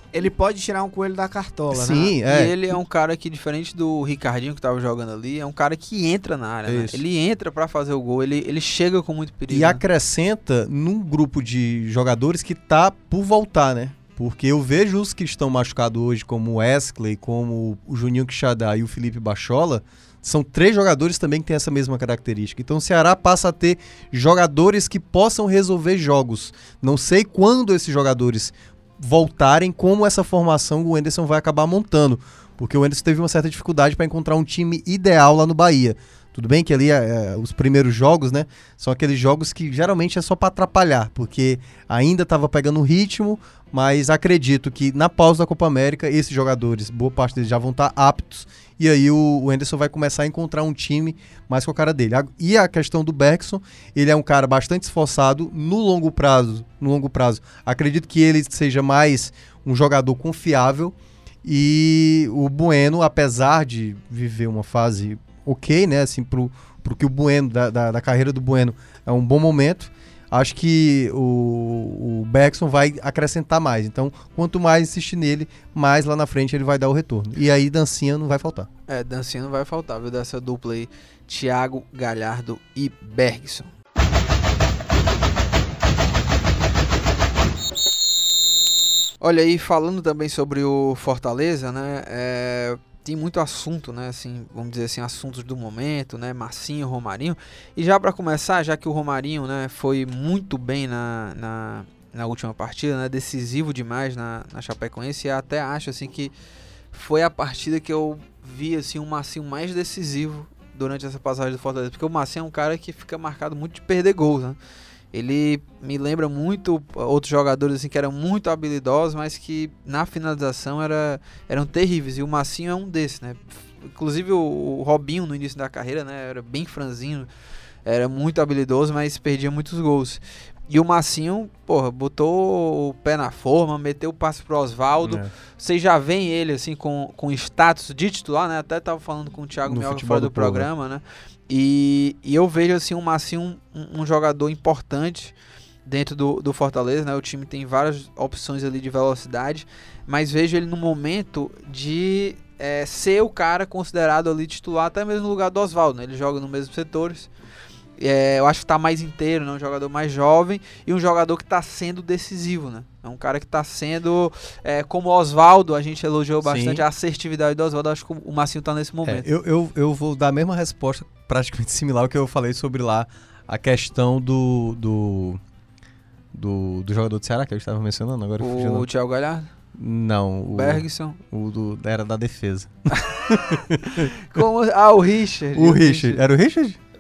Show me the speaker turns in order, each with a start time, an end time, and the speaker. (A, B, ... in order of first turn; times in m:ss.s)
0:00.1-0:02.1 A
0:01.7-0:02.6 B
0:02.2-0:09.8 C
0:06.6-0:07.0 B
0:09.5-1:18.7 B
1:18.9-1:23.7 C
1:29.2-1:46.3 C
1:46.9-1:54.6 C
1:55.1-2:07.3 C
2:07.8-2:25.3 C
2:15.0-2:15.3 B
2:19.6-2:20.7 B
2:25.8-2:37.3 C
2:38.0-2:49.3 C
2:46.4-2:46.8 B
2:49.0-2:55.4 B
2:56.3-2:58.8 B
2:58.4-2:59.5 C
2:59.8-3:04.1 B
3:00.5-3:01.2 C
3:02.9-3:03.3 C
3:04.0-3:06.2 C
3:05.5-3:06.8 B